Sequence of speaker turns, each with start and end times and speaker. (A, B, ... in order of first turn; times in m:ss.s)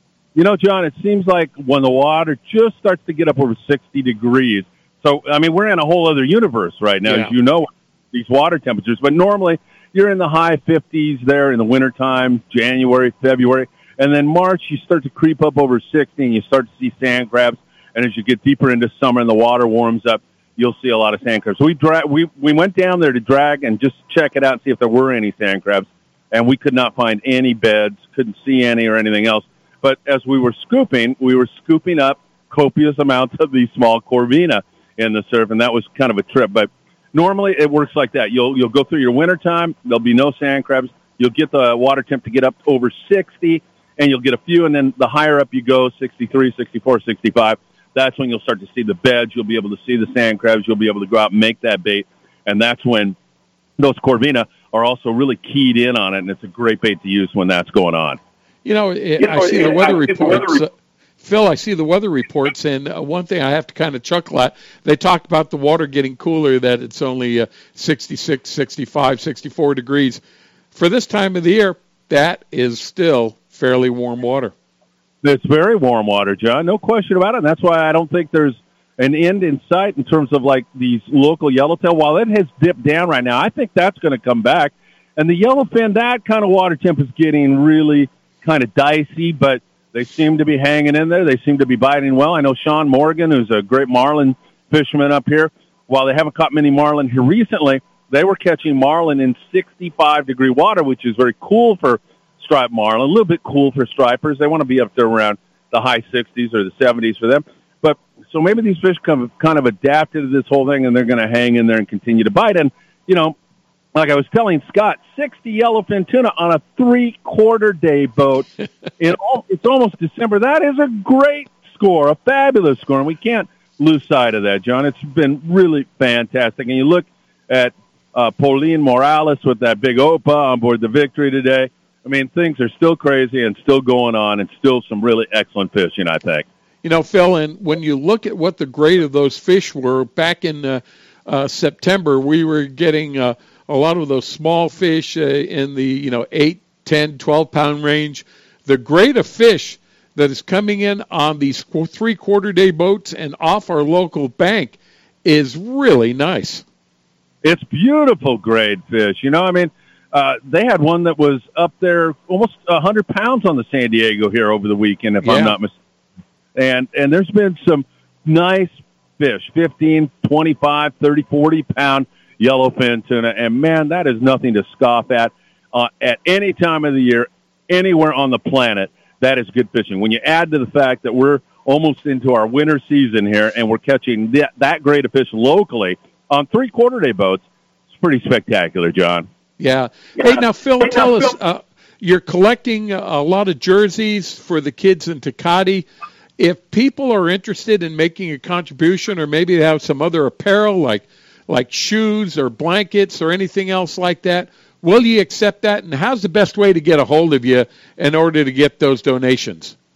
0:00.4-0:53.2 A
0:07.0-0:07.3 B
0:53.8-0:58.2 A
0:58.6-1:00.7 B
1:01.2-1:10.2 B
1:10.7-1:14.5 B
1:15.2-1:53.4 A
1:53.9-1:58.5 A
1:59.0-2:16.4 A
2:16.8-2:36.6 B
2:37.4-2:45.7 A
2:45.2-2:45.6 B
2:46.6-3:09.3 A
3:09.6-3:15.9 B
3:16.4-3:29.8 B